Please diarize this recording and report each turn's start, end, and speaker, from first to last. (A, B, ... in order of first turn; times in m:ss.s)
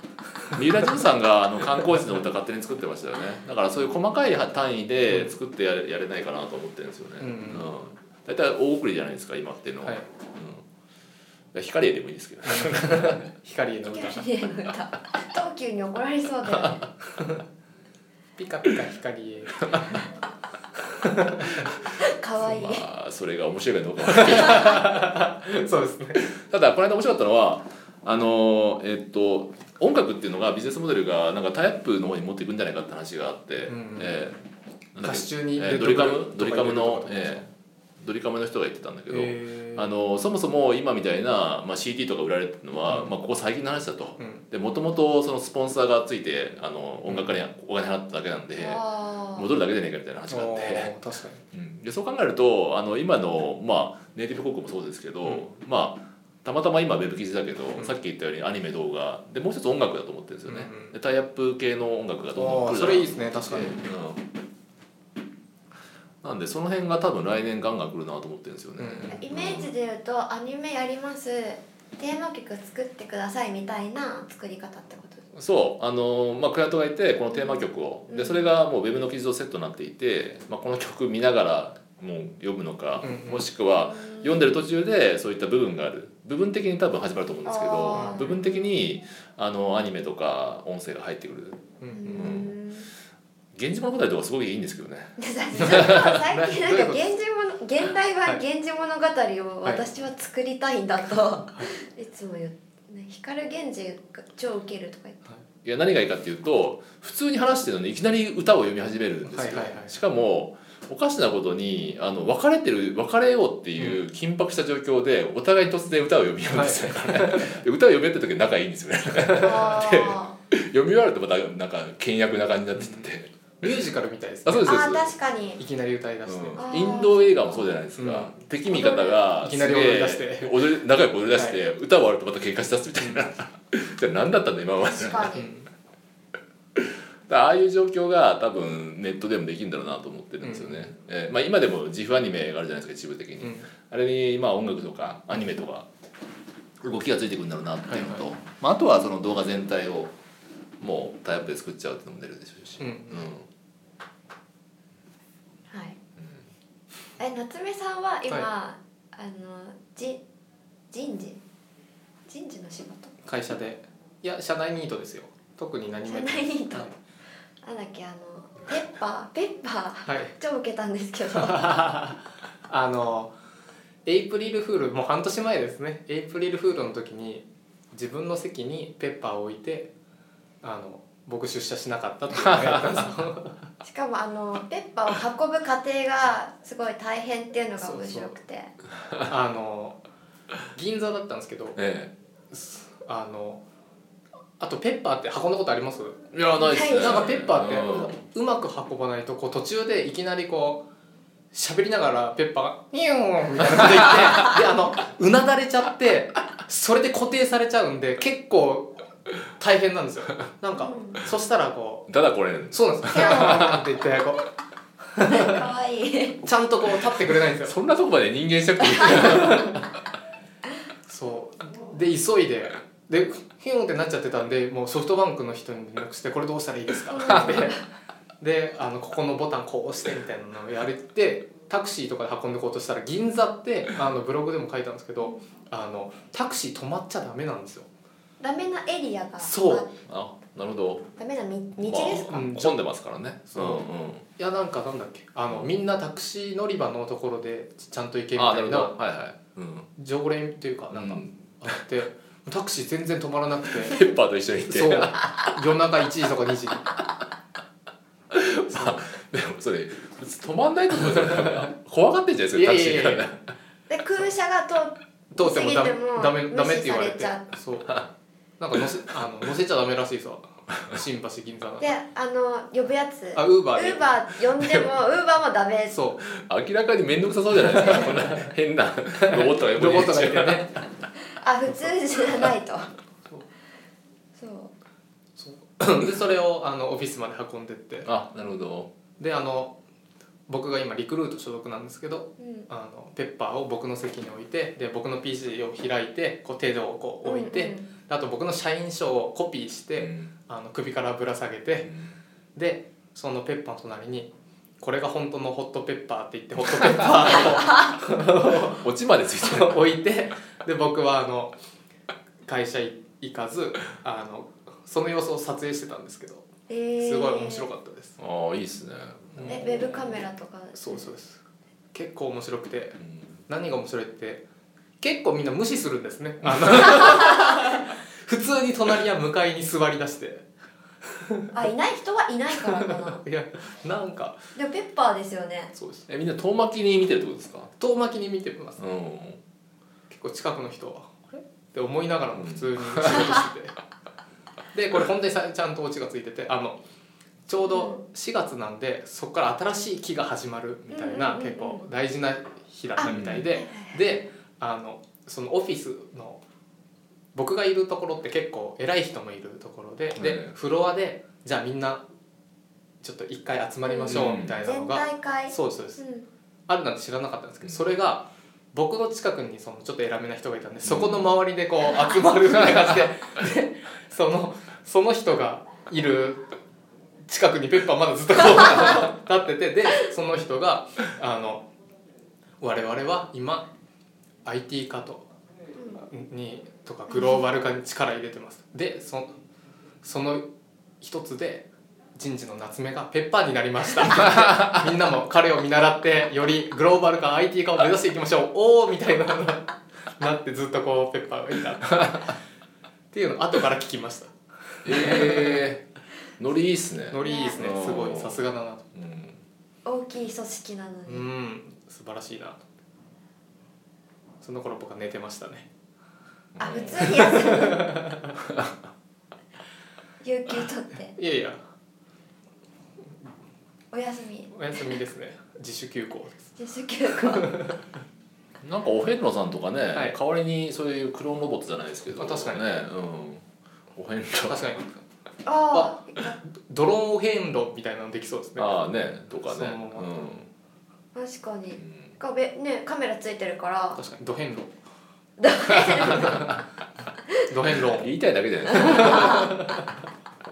0:00.5-0:10.6 A
0:07.2-0:07.7 B
0:11.5-0:13.2 A
0:12.5-0:14.2 B
0:13.9-0:16.9 C
0:18.4-0:20.0 B
0:19.6-0:20.0 A
0:21.0-0:21.6 B
0:22.0-0:22.8 C
0:22.4-0:24.8 A
0:24.1-0:26.2 B
0:24.5-0:24.8 C
0:26.2-0:34.4 A
0:33.6-0:34.2 B
0:34.9-0:37.5 A
0:35.0-0:37.4 B
0:38.0-0:48.8 A
0:39.1-0:39.9 B
0:42.9-0:43.1 B
0:44.2-0:44.4 B
0:47.1-0:47.4 B
0:48.6-0:49.5 C
0:49.3-0:50.9 A
0:50.3-0:51.4 B
0:51.5-1:04.2 A
1:00.4-1:00.9 B
1:02.3-1:03.7 B
1:06.2-1:09.7 A
1:08.8-1:09.2 B
1:09.1-1:15.2 C
1:15.3-1:31.6 A
1:17.3-1:18.5 C
1:23.0-1:23.5 B
1:23.9-1:24.6 C
1:27.4-1:28.7 C
1:27.9-1:28.3 B
1:31.8-1:32.4 B
1:31.9-1:32.9 C
1:32.1-1:32.5 A
1:33.5-1:36.2 A
1:35.2-1:45.2 C
1:35.6-1:37.0 B
1:45.6-2:03.7 A
1:49.2-1:49.9 B
1:56.5-1:57.6 B
1:59.4-2:00.3 C
2:02.8-2:03.1 B
2:03.6-2:04.8 B
2:04.4-2:05.1 A
2:04.6-2:05.6 C
2:05.6-2:06.7 B
2:06.2-2:15.5 A
2:06.6-2:07.6 C
2:08.0-2:08.3 B
2:08.7-2:09.2 C
2:09.3-2:10.6 B
2:11.3-2:11.6 B
2:13.0-2:13.2 B
2:14.9-2:15.5 C
2:15.3-2:15.7 B
2:16.8-2:25.9 A
2:20.4-2:20.9 B
2:23.4-2:23.7 B
2:26.8-2:30.1 A
2:27.9-2:28.3 B
2:30.8-2:33.4 A
2:32.8-2:33.3 B
2:35.7-2:36.0 C
2:37.2-2:40.2 C
2:40.9-2:41.4 C
2:42.3-2:43.1 C
2:43.2-2:46.9 B
2:46.0-2:46.9 C
2:47.6-2:51.8 C
2:50.0-2:50.3 B
2:51.5-2:53.3 B
2:54.0-2:59.9 B
3:00.6-3:03.7 B
3:02.3-3:02.8 A
3:03.8-3:08.7 C
3:07.8-3:08.4 B
3:09.2-3:10.0 B
3:10.7-3:11.8 B
3:11.8-3:12.1 A
3:12.5-3:13.6 B
3:14.6-3:16.2 B
3:16.3-3:18.1 A
3:16.6-3:17.3 C
3:16.9-3:20.8 B
3:21.5-3:32.1 B
3:30.7-3:31.2 C
3:32.1-3:33.8 A
3:32.7-3:34.5 B
3:33.1-3:33.7 C
3:35.1-3:35.6 B
3:35.2-3:36.4 C
3:36.4-3:37.7 B
3:37.6-3:39.8 A
3:39.1-3:39.8 B
3:41.1-3:47.8 B
3:47.1-3:47.8 C
3:47.3-3:47.6 A
3:48.4-3:57.9 B
3:58.4-3:59.9 C
3:59.4-3:59.8 B
4:00.1-4:01.1 A
4:01.2-4:02.5 C
4:01.8-4:04.2 A
4:02.3-4:02.8 B
4:03.5-4:03.8 B
4:04.4-4:08.9 B
4:08.4-4:09.9 A
4:10.0-4:14.0 B
4:10.9-4:11.5 A
4:13.8-4:15.4 A
4:14.7-4:16.9 B
4:18.3-4:23.4 A
4:18.7-4:19.0 B
4:22.5-4:23.3 B
4:23.9-4:27.5 C
4:25.3-4:28.0 B
4:28.6-4:31.9 B
4:31.8-4:36.0 C
4:33.3-4:34.1 B
4:34.6-4:34.9 A
4:35.9-4:36.2 B
4:36.2-4:40.7 A
4:39.1-4:40.8 B
4:41.3-4:42.9 C
4:44.4-4:44.7 C
4:45.4-4:48.1 B
4:48.0-4:48.9 A
4:49.2-4:49.8 B
4:50.5-5:01.9 B
4:52.4-4:52.7 C
4:57.2-4:57.9 C
5:00.0-5:00.3 A
5:01.8-5:02.2 A
5:02.5-5:08.9 B
5:08.6-5:09.8 A
5:09.4-5:11.5 B
5:12.4-5:16.5 B
5:16.7-5:17.7 C
5:17.0-5:18.2 B
5:18.2-5:19.6 A
5:19.3-5:20.1 B
5:19.4-5:21.0 C
5:20.7-5:21.4 B
5:21.9-5:24.4 B
5:25.0-5:30.4 B
5:31.5-5:33.2 C
5:32.7-5:34.4 B
5:34.5-5:35.7 C
5:35.7-5:36.1 B
5:36.1-5:37.7 A
5:37.8-5:38.8 B
5:38.8-5:39.4 A
5:40.1-5:43.7 B
5:42.4-5:43.3 A
5:44.7-5:46.8 B
5:47.5-5:56.4 B
5:47.6-5:48.0 C
5:50.9-5:51.8 C
5:53.0-5:54.0 C
5:53.0-5:53.5 A
5:57.3-6:02.0 B
6:00.2-6:00.5 A
6:03.0-6:06.0 B
6:03.8-6:06.2 C
6:04.0-6:04.6 A
6:06.7-6:16.5 B
6:10.8-6:11.2 A
6:11.9-6:12.9 C
6:17.3-6:21.7 B
6:22.6-6:23.7 B
6:24.4-6:25.3 B
6:25.9-6:29.3 B
6:27.1-6:27.4 C
6:30.0-6:30.4 B
6:31.0-6:42.2 B
6:43.1-6:45.6 B
6:44.8-6:45.9 A
6:46.4-6:49.4 A
6:47.1-6:48.9 B
6:47.2-6:47.7 C
6:49.8-6:51.3 C
6:51.0-6:52.6 B
6:54.4-6:55.7 B
6:56.5-6:57.4 A
6:56.6-6:58.0 C
6:56.7-6:58.3 B
7:00.2-7:01.2 C
7:01.1-7:01.6 B
7:03.9-7:05.0 C
7:04.5-7:06.4 B
7:06.6-7:07.7 C
7:08.6-7:13.4 A
7:12.1-7:12.6 B
7:13.9-7:14.6 A
7:14.4-7:15.0 B
7:15.4-7:16.4 C
7:16.4-7:18.8 B
7:18.6-7:20.5 A
7:19.4-7:20.1 B
7:21.1-7:24.0 C
7:21.8-7:22.1 A
7:23.9-7:24.7 B
7:25.4-7:26.5 C
7:27.5-7:28.1 B
7:28.0-7:29.5 A
7:28.7-7:29.6 C
7:28.7-7:29.5 B